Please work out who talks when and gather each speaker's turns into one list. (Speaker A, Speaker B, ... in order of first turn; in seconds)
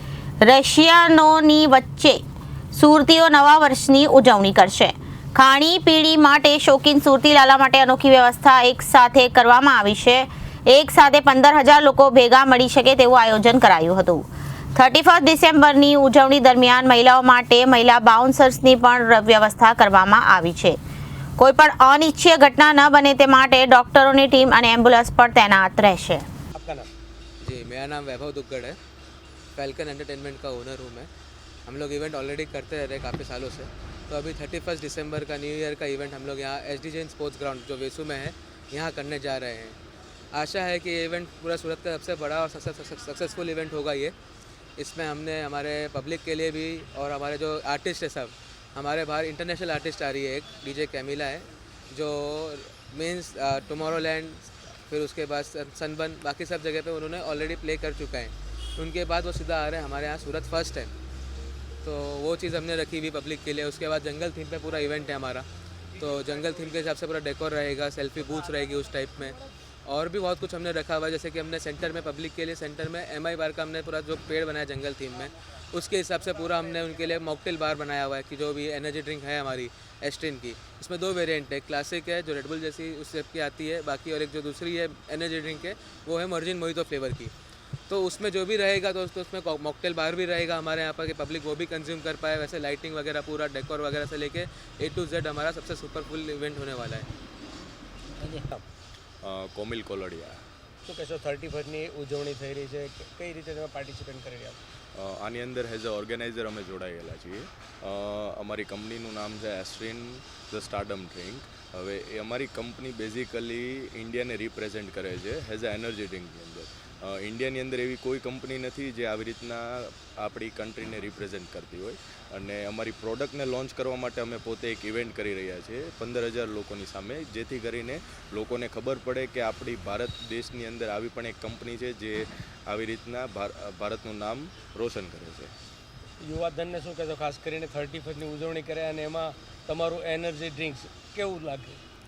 Speaker A: 0.4-2.2, 2.7-20.8, 21.4-26.3
Speaker B: 26.5-26.9, 98.1-98.6, 100.8-104.6, 136.2-141.8
Speaker C: 27.4-28.8, 29.6-31.1, 31.6-39.8, 40.3-44.1, 44.8-60.9, 61.8-87.3, 87.9-97.1
Speaker D: 99.2-100.4, 104.9-135.5